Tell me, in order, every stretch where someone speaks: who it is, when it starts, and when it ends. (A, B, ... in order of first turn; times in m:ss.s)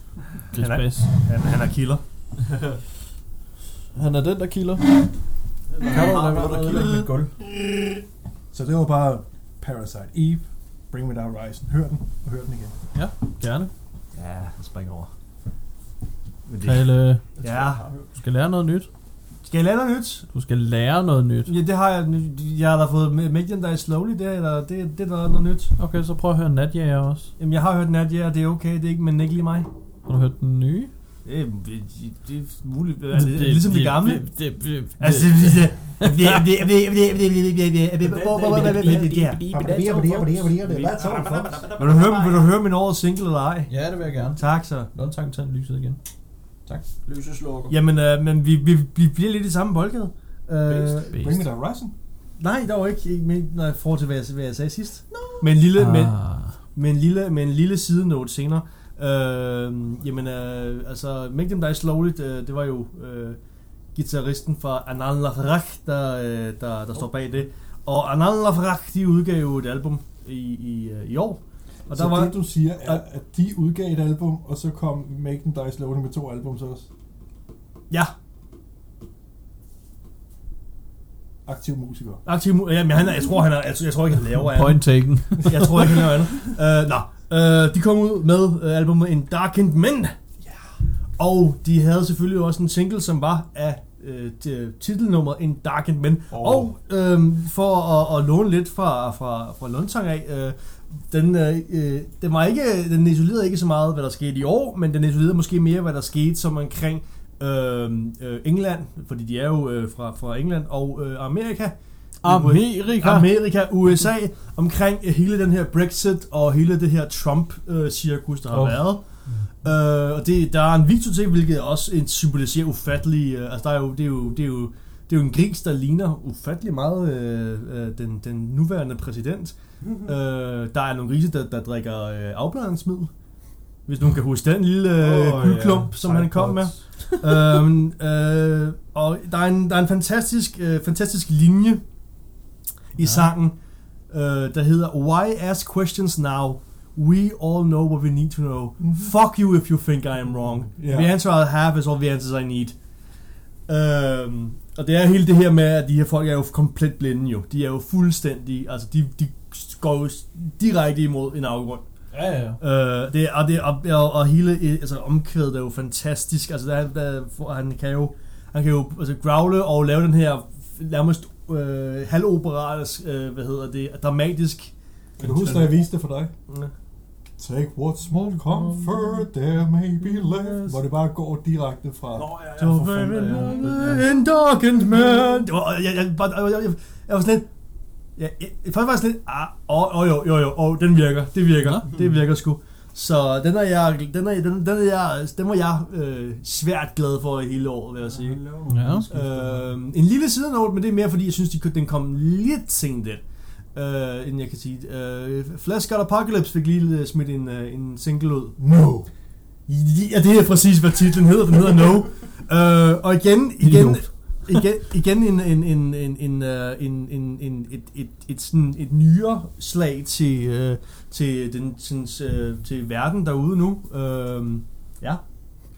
0:00.5-0:01.1 A
0:00.5-0:02.0 B
0:02.4-0:02.8 C
0:03.9-0:05.1 A
0:05.7-0:07.1 C
0:05.8-0:07.4 A
0:08.5-0:12.8 D
0:12.9-0:13.7 A
0:14.1-0:15.1 B
0:16.5-0:17.8 B
0:16.6-0:17.2 A
0:17.4-0:18.1 C
0:18.2-0:18.9 A
0:19.4-0:20.3 B
0:20.3-0:21.5 A
0:21.5-0:25.7 B
0:25.8-0:27.3 A
0:27.4-0:29.7 B
0:30.0-0:30.9 A
0:31.2-0:34.3 B
0:33.1-0:36.4 A
0:35.0-0:39.7 B
0:38.0-0:42.5 C
0:38.5-0:39.6 A
0:38.6-0:41.6 D
0:41.8-0:43.7 B
0:43.7-0:46.0 A
0:44.3-0:44.9 B
0:47.0-0:47.8 C
0:47.7-0:51.2 B
0:51.1-0:51.9 D
0:51.1-0:51.5 A
0:52.4-1:03.4 B
0:55.1-0:55.4 C
0:55.8-0:56.6 A
1:03.9-1:13.0 B
1:11.9-1:16.9 D
1:21.4-1:22.2 D
1:22.2-1:30.2 B
1:24.5-1:26.1 A
1:31.2-2:13.1 B
1:52.2-1:53.3 A
1:58.5-1:59.0 A
1:59.2-1:59.5 C
2:09.8-2:10.1 C
2:13.8-2:21.8 B
2:15.0-2:16.7 C
2:22.9-2:23.5 B
2:24.1-2:32.7 B
2:30.8-2:31.1 D
2:33.7-2:41.8 B
2:42.1-2:42.6 A
2:42.6-2:54.7 B
2:55.2-2:56.3 D
2:55.2-2:55.7 C
2:57.4-3:02.3 D
2:58.8-2:59.1 B
3:00.2-3:00.7 B
3:02.1-3:04.1 C
3:02.6-3:07.4 B
3:08.2-3:18.5 B
3:18.0-3:19.7 C
3:18.7-3:19.0 A
3:19.1-3:23.2 B
3:23.7-3:28.6 B
3:28.6-3:29.1 D
3:29.7-3:45.2 B
3:33.6-3:34.6 A